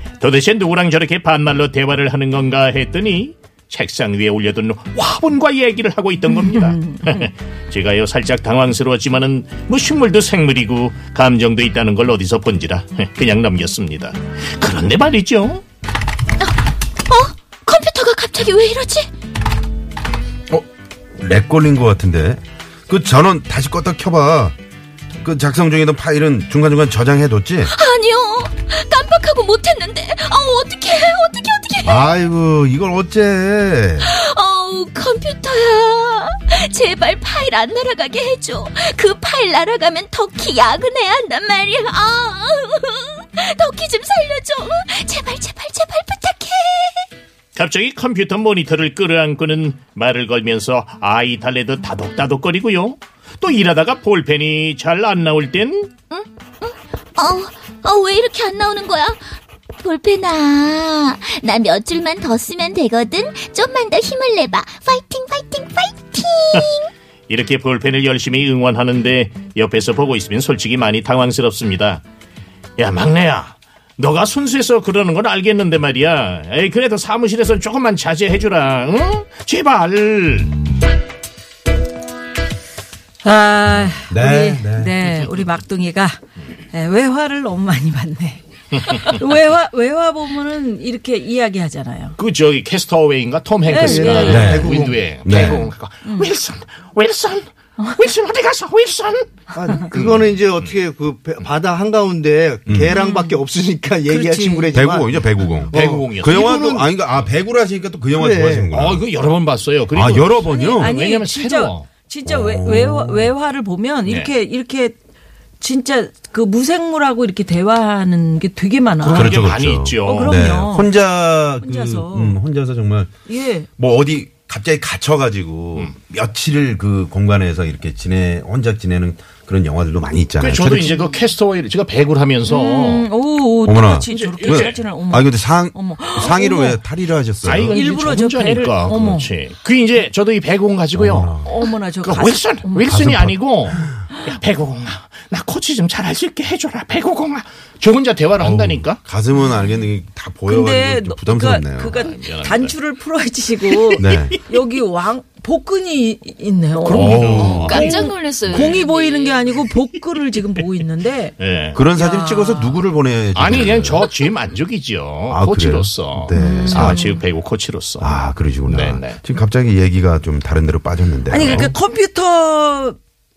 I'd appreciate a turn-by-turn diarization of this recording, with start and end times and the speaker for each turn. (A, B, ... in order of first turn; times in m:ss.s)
0:00.2-0:15.6 A
0:06.3-0:07.3 B
0:17.1-0:19.1 C
0:21.2-0:24.6 D
0:25.2-0:27.7 D
0:27.7-0:32.1 C
0:31.8-0:34.1 D
0:34.0-0:47.1 C
0:47.6-0:55.9 A
0:56.1-1:06.9 C
1:07.3-1:12.0 A
1:12.8-1:20.5 A
1:23.2-1:26.2 B
1:24.1-1:25.0 D
1:26.7-1:32.2 B
1:32.2-1:40.8 A
1:33.7-1:34.7 B
1:33.7-1:35.2 E
1:34.3-1:35.7 D
1:36.0-1:36.3 B
1:39.5-1:46.9 E
1:42.7-1:42.9 D
1:42.9-1:43.4 B
1:44.1-1:44.7 B
1:44.7-1:49.0 D
1:45.7-1:46.6 A
1:48.2-1:48.7 E
1:48.7-1:51.9 A
1:49.9-1:50.9 D
1:50.4-1:55.0 B
1:52.2-1:53.3 D
1:54.1-1:54.3 A
1:55.6-1:59.5 B
1:59.0-2:00.3 A
1:59.1-2:03.1 D
2:00.0-2:00.9 B
2:01.6-2:02.4 B
2:03.3-2:03.7 B
2:03.8-2:11.0 D
2:10.4-2:13.1 A
2:12.5-2:16.8 B
2:13.6-2:17.8 D
2:14.1-2:14.8 A
2:17.4-2:29.0 A
2:17.6-2:19.3 B
2:20.9-2:21.6 D
2:21.4-2:22.9 B
2:22.9-2:24.0 D
2:28.4-2:32.0 D
2:30.5-2:42.8 B
2:31.9-2:32.8 A
2:33.9-2:34.3 A
2:34.0-2:34.4 D
2:36.8-2:38.1 A
2:36.9-2:38.0 D
2:37.3-2:39.6 C
2:41.4-2:41.8 A
2:41.8-2:44.1 D
2:43.4-2:49.2 A
2:45.3-2:47.0 D
2:46.3-2:47.2 B
2:48.0-2:51.7 D
2:51.3-2:53.0 B
2:51.4-2:51.7 A